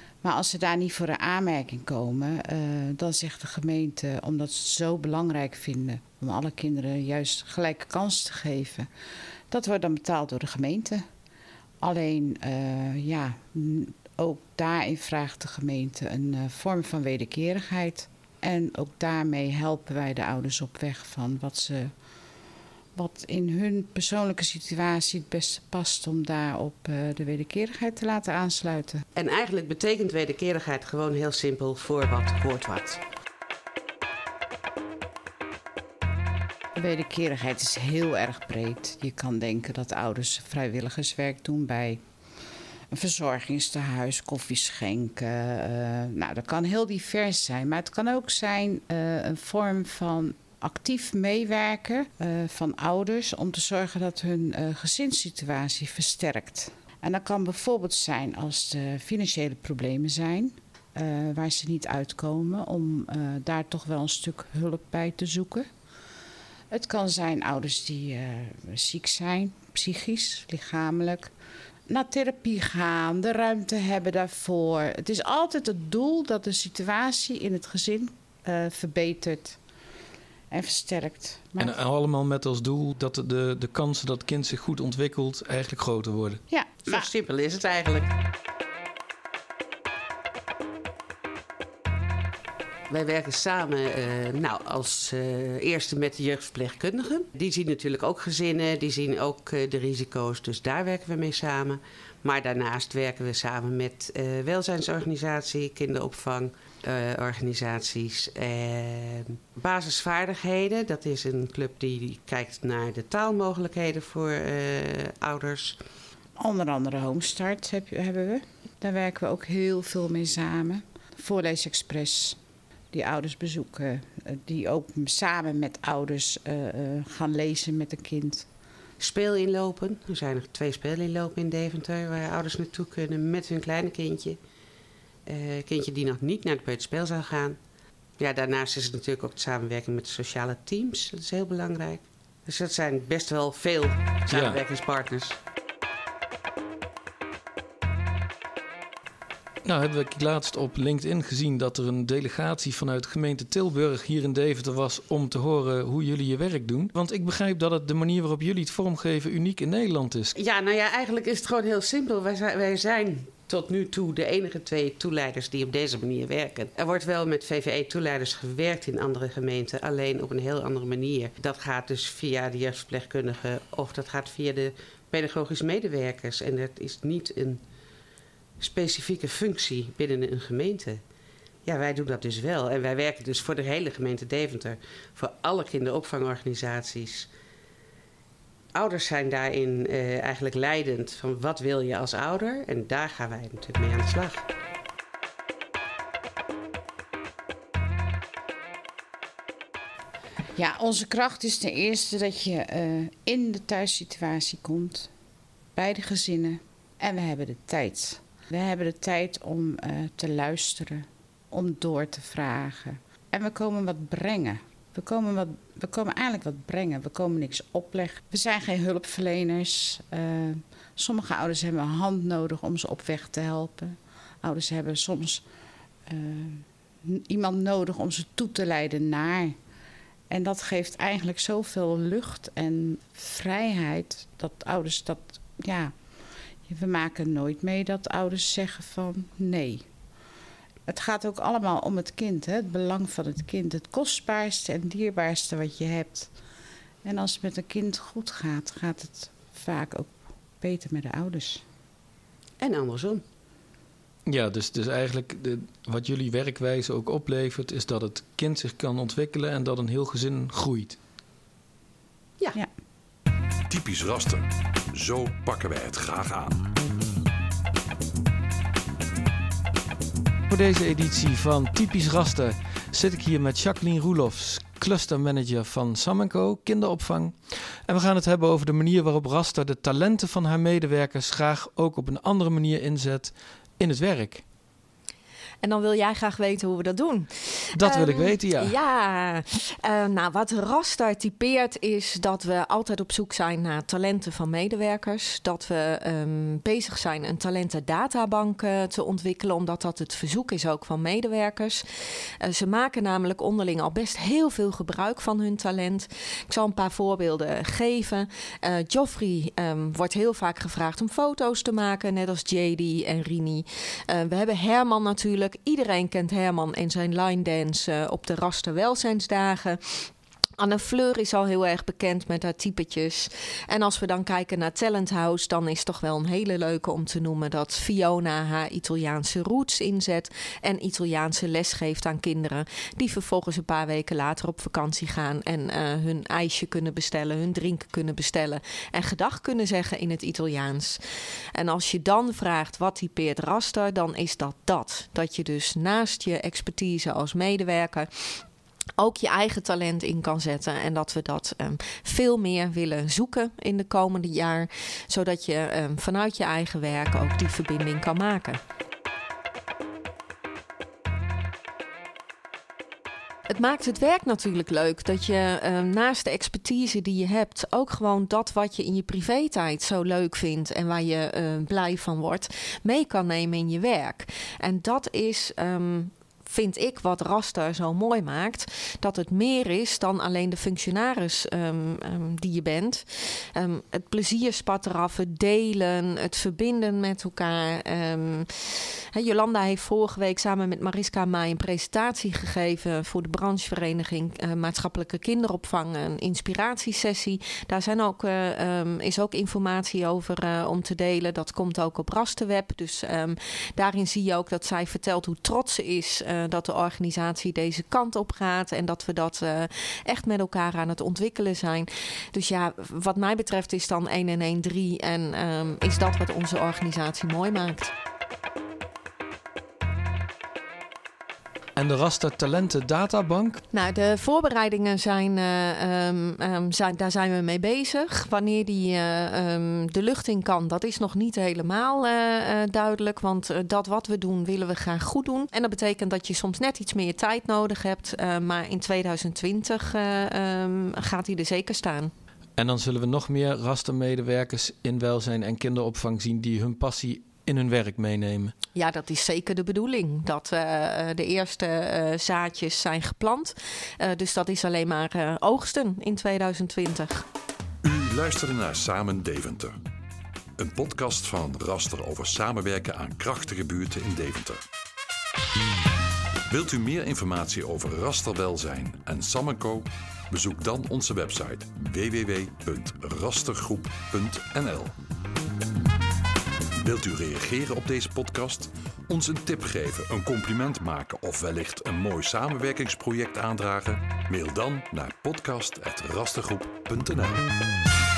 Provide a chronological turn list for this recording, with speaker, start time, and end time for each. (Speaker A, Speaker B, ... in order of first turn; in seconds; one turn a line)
Speaker A: 0.2-8.9
Speaker A: 9.5-11.0
Speaker A: 11.8-21.9
Speaker A: 22.9-29.1
Speaker B: 29.1-33.0
Speaker A: 36.8-42.0
Speaker A: 42.9-65.7
Speaker A: 66.7-71.3
Speaker A: 71.9-79.6
Speaker A: 80.5-81.8
Speaker C: 81.6-86.4
Speaker A: 86.5-87.1
Speaker B: 86.9-88.1
Speaker B: 92.9-115.8
Speaker A: 116.4-122.4
Speaker A: 122.9-128.5
Speaker B: 129.0-134.4
Speaker B: 135.3-137.6
Speaker B: 138.2-145.4
Speaker C: 144.3-144.6
Speaker C: 149.6-160.3
Speaker B: 160.4-177.6
Speaker B: 178.6-181.0
Speaker B: 181.7-187.3
Speaker B: 188.7-194.5
Speaker A: 200.6-205.1
Speaker A: 205.8-225.4
Speaker A: 226.1-229.6
Speaker A: 230.3-235.9
Speaker A: 236.7-239.8
Speaker A: 240.9-246.3
Speaker A: 247.0-251.6
Speaker B: 252.6-253.2
Speaker C: 254.3-261.0
Speaker D: 263.7-266.6
Speaker C: 270.5-284.4
Speaker E: 285.6-301.8
Speaker C: 287.8-288.8
Speaker E: 302.4-341.0
Speaker E: 341.6-348.4
Speaker E: 349.0-358.6
Speaker E: 363.5-417.9
Speaker C: 421.8-423.6
Speaker E: 423.7-442.1
Speaker C: 442.6-448.6
Speaker E: 448.8-457.3
Speaker D: 457.8-459.8
Speaker D: 460.6-464.6
Speaker D: 466.5-474.9
Speaker D: 476.8-487.4